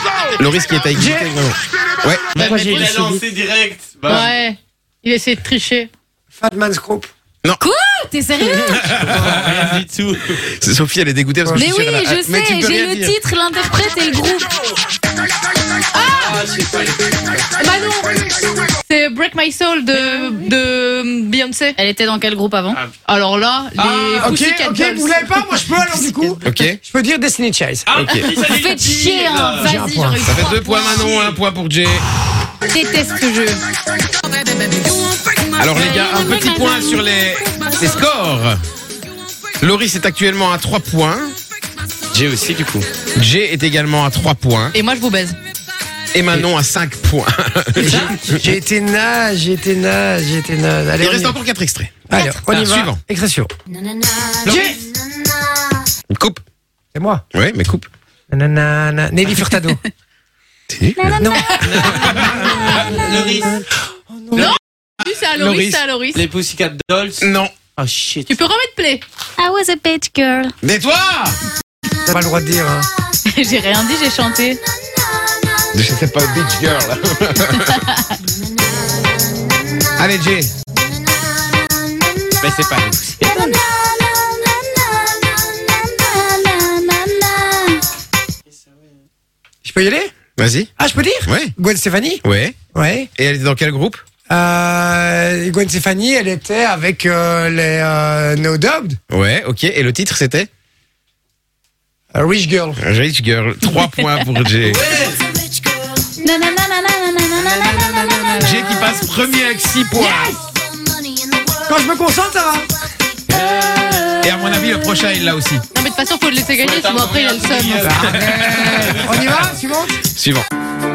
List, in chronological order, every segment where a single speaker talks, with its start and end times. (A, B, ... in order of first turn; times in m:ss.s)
0:00.4-0:02.3 A
0:01.0-0:01.4 B
0:02.4-0:04.3 C
0:02.4-0:03.2 B
0:02.4-0:02.9 D
0:04.1-0:05.9 D
0:06.4-0:07.1 B
0:07.6-0:09.0 E
0:08.5-0:09.6 A
0:09.0-0:10.4 C
0:10.5-0:13.1 A
0:11.5-0:14.6 E
0:15.9-0:16.4 D
0:16.1-0:17.5 C
0:17.6-0:18.2 D
0:18.9-0:21.8 D
0:20.0-0:20.3 E
0:21.8-0:22.8 E
0:23.0-0:25.7 D
0:23.8-0:24.4 C
0:24.2-0:27.9 B
0:25.9-0:26.6 E
0:26.4-0:26.8 A
0:27.9-0:29.7 C
0:27.9-0:28.3 A
0:28.4-0:30.9 E
0:29.5-0:30.5 B
0:30.1-0:31.1 D
0:30.2-0:32.1 A
0:31.0-0:31.4 C
0:32.7-0:33.6 E
0:34.3-0:34.9 D
0:35.5-0:37.8 E
0:35.6-0:38.6 A
0:39.6-0:41.3 A
0:42.1-0:42.9 C
0:43.1-0:44.8 A
0:44.7-0:45.4 D
0:46.1-0:48.4 A
0:47.8-0:51.4 B
0:47.8-0:48.1 C
0:51.0-0:53.0 A
0:52.1-0:53.5 B
0:54.4-0:54.8 C
0:54.4-0:54.8 B
0:56.1-0:56.4 A
0:56.9-0:57.2 B
0:57.3-0:57.9 A
0:58.3-0:59.8 B
1:00.7-1:01.3 A
1:01.0-1:01.4 E
1:01.2-1:02.1 B
1:01.3-1:01.8 D
1:01.6-1:03.6 C
1:02.0-1:02.7 A
1:02.6-1:03.0 D
1:04.1-1:04.5 B
1:04.4-1:06.2 D
1:05.4-1:05.8 A
1:06.1-1:08.4 C
1:07.2-1:07.5 A
1:08.3-1:09.0 D
1:09.4-1:10.5 E
1:10.6-1:11.4 A
1:12.1-1:12.9 B
1:13.3-1:14.6 E
1:15.7-1:17.8 A
1:20.0-1:20.5 A
1:22.4-1:23.6 C
1:26.0-1:27.6 E
1:29.6-1:30.1 B
1:30.4-1:30.7 A
1:30.8-1:32.2 B
1:31.3-1:31.5 A
1:32.2-1:32.6 A
1:32.7-1:33.1 B
1:33.2-1:34.0 A
1:34.3-1:39.0 B
1:39.1-1:40.5 A
1:42.1-1:42.8 B
1:42.8-1:44.9 A
1:44.6-1:45.2 C
1:46.2-1:48.4 E
1:48.4-1:50.4 A
1:51.6-1:52.7 B
1:54.2-1:55.6 A
1:55.7-1:58.0 D
1:56.6-1:59.4 C
1:57.8-2:00.0 B
2:00.1-2:00.5 A